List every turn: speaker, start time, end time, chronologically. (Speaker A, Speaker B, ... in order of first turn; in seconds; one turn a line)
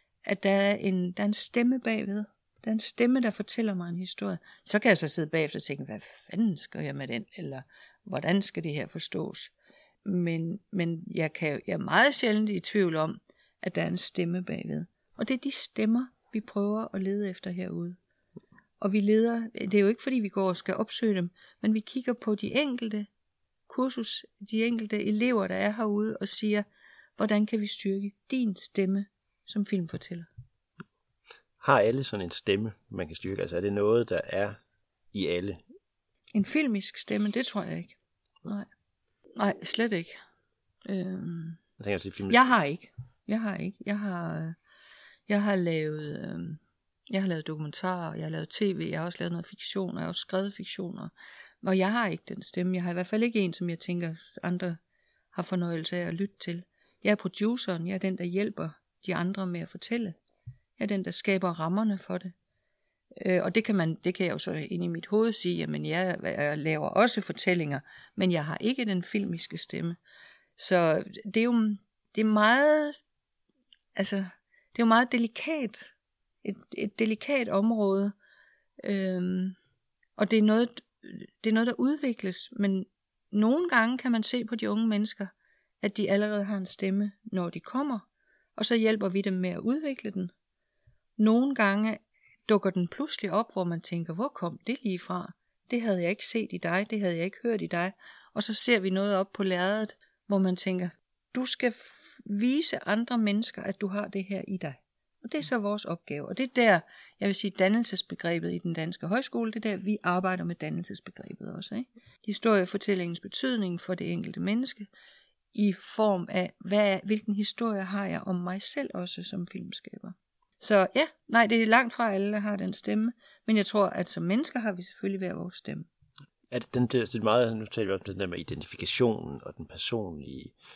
Speaker A: 0.2-9.5
Speaker A: 10.0-18.0
Speaker A: 18.8-23.1
Speaker A: 23.7-26.6
Speaker A: 27.2-30.3
Speaker B: 31.6-34.6
Speaker B: 35.1-35.6
Speaker A: 36.3-38.7
Speaker A: 39.4-40.2
Speaker A: 40.9-41.6
Speaker B: 41.8-42.4
Speaker A: 42.3-44.6
Speaker A: 45.3-46.6
Speaker A: 47.1-51.1
Speaker A: 51.6-54.8
Speaker A: 55.3-60.2
Speaker A: 60.8-62.3
Speaker A: 63.2-70.0
Speaker A: 70.6-73.0
Speaker A: 74.0-75.9
Speaker A: 76.4-78.1
Speaker A: 78.8-79.6
Speaker A: 80.2-90.3
Speaker A: 91.2-114.9
Speaker A: 115.5-125.9
Speaker B: 126.5-130.6